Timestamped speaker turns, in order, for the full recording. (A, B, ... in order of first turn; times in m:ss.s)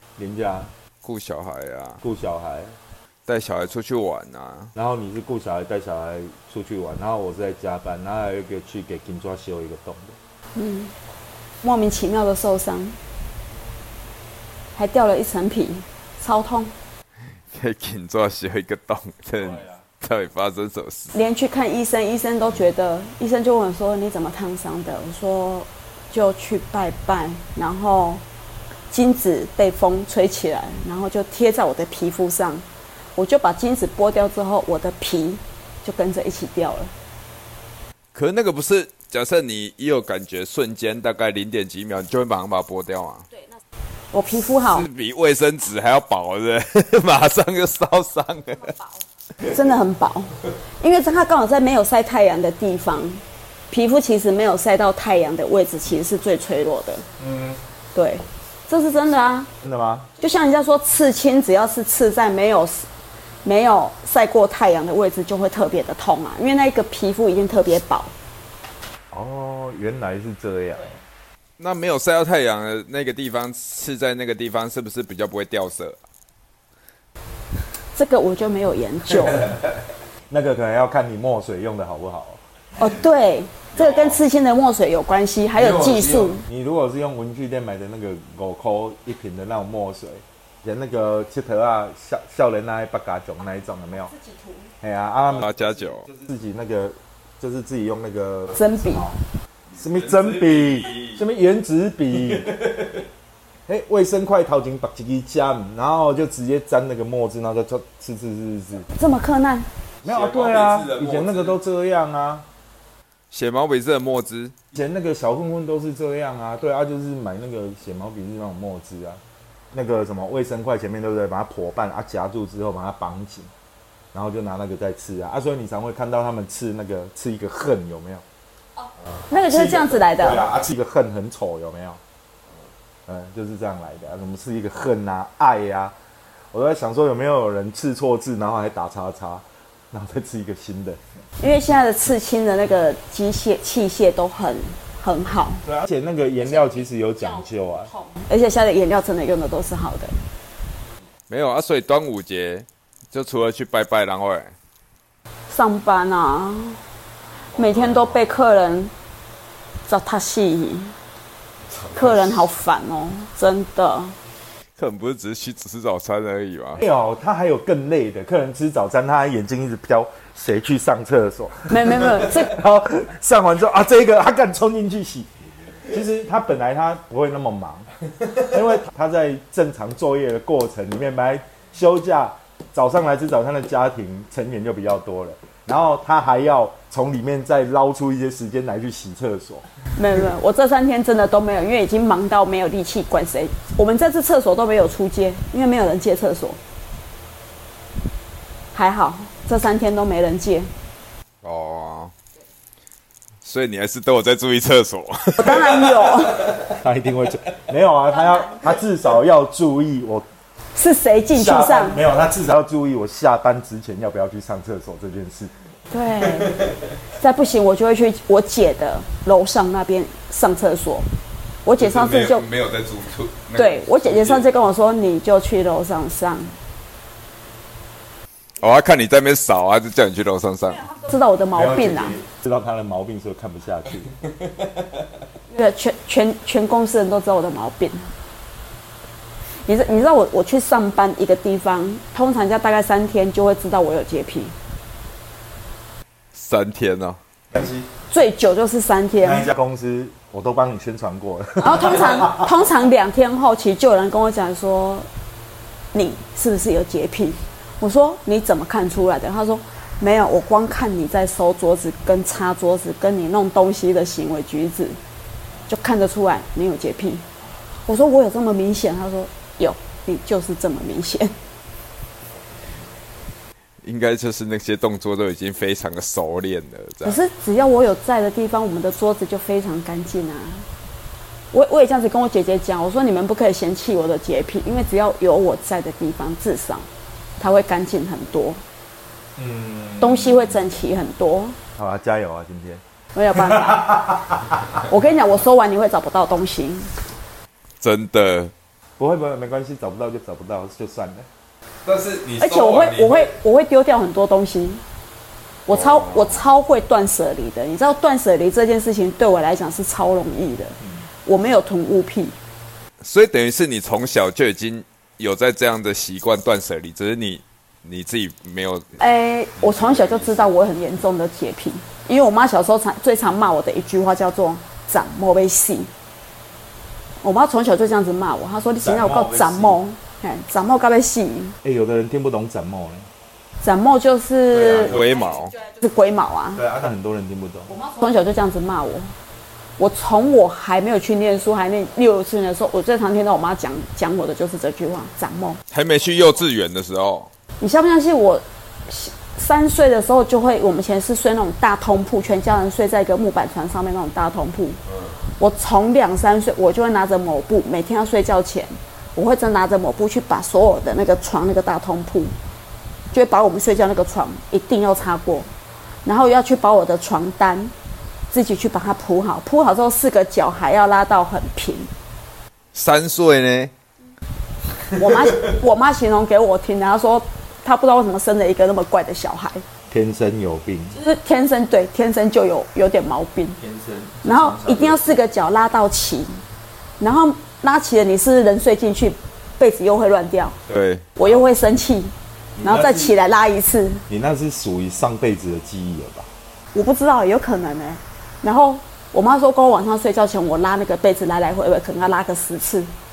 0:00.2-0:00.7 A
0:01.0-0:02.0 B
0:02.0-0:02.8 A
0:03.3-0:04.7 B
0:04.8-0:10.2 A
0:10.6-0:10.9 C
0:11.6-0:13.0 C
0:14.8-0:16.7 C
0:17.5-0:21.2 B
0:21.1-0:28.2 C
0:28.9-0:32.6 C
0:33.2-0:36.9 C
0:38.1-0:43.3 B
0:44.1-0:44.9 C
0:44.5-0:48.8 B
0:49.4-0:57.0 C
0:57.2-0:57.6 A
0:58.0-0:59.5 C
0:59.6-1:00.1 A
1:00.2-1:02.9 C
1:03.4-1:08.1 C
1:09.1-1:11.0 A
1:11.6-1:16.0 B
1:17.9-1:19.6 C
1:20.3-1:22.4 A
1:22.8-1:26.4 C
1:23.8-1:24.2 B
1:25.6-1:34.1 A
1:34.0-1:34.7 C
1:34.8-1:39.2 A
1:35.3-1:36.1 B
1:38.6-1:39.1 C
1:39.8-1:41.2 B
1:39.8-1:42.5 A
1:42.3-1:43.0 B
1:43.7-1:48.9 A
1:48.9-1:49.7 C
1:50.0-1:51.6 B
1:50.0-1:52.5 A
1:53.3-1:54.6 B
1:54.7-1:59.2 A
1:59.7-2:03.5 A
2:04.1-2:08.2 A
2:09.3-2:10.5 C
2:09.4-2:12.0 A
2:13.1-2:16.0 A
2:16.5-2:21.0 A
2:21.4-2:25.6 C
2:25.6-2:27.9 A
2:28.0-2:30.2 C
2:31.3-2:34.5 B
2:35.5-2:36.8 C
2:37.5-2:38.9 C
2:37.6-2:38.1 B
2:39.9-2:41.0 C
2:41.9-2:44.2 C
2:44.8-2:46.8 B
2:46.8-2:55.3 A
2:51.7-2:52.6 C
2:55.9-3:09.7 A
3:10.0-3:16.6 C
3:18.7-3:20.7 C
3:21.4-3:22.1 B
3:23.4-3:25.7 B
3:25.4-3:26.5 C
3:26.5-3:30.3 A
3:30.8-3:32.0 C
3:31.3-3:35.5 A
3:35.9-3:36.6 C
3:37.1-3:41.1 C
3:41.6-3:42.5 C
3:41.8-3:44.5 B
3:43.6-3:46.6 C
3:48.6-3:50.9 B
3:50.9-3:52.2 C
3:51.5-3:54.2 A
3:55.5-3:58.1 C
3:59.7-4:04.6 C
4:06.3-4:07.2 B
4:07.5-4:07.9 A
4:08.1-4:09.5 C
4:09.2-4:12.4 A
4:11.6-4:15.1 C
4:15.9-4:25.0 C
4:25.7-4:27.3 C
4:27.9-4:31.3 C
4:33.8-4:37.2 B
4:37.0-4:40.7 C
4:41.5-4:46.9 C
4:47.4-4:48.6 C
4:49.4-4:50.5 A
4:50.0-4:51.6 C
4:51.8-4:52.8 A
4:53.2-4:54.2 C
4:53.4-4:54.6 A
4:54.8-4:56.9 C
4:57.8-4:58.5 B
4:59.0-5:01.3 A
5:01.8-5:03.3 B
5:02.4-5:04.8 C
5:05.7-5:12.4 C
5:05.7-5:06.4 B
5:13.0-5:19.0 B
5:19.0-5:25.9 C
5:19.6-5:20.5 B
5:27.2-5:31.6 C
5:28.8-5:29.8 A
5:31.6-5:33.1 A
5:33.6-5:35.0 C
5:34.5-5:35.1 A
5:34.6-5:35.6 B
5:35.6-5:36.6 C
5:36.6-5:37.7 A
5:37.7-5:39.1 C
5:39.8-5:45.6 C
5:45.7-5:47.3 B
5:47.6-6:02.3 C
6:03.1-6:05.5 C
6:06.0-6:07.7 C
6:08.3-6:11.9 C
6:12.7-6:13.7 B
6:14.9-6:19.6 C
6:19.9-6:21.0 A
6:20.9-6:23.6 C
6:23.6-6:25.2 A
6:24.2-6:26.4 C
6:27.0-6:30.6 C
6:30.7-6:31.1 B
6:31.2-6:34.0 C
6:32.6-6:33.2 A
6:34.1-6:36.3 A
6:36.7-6:42.9 C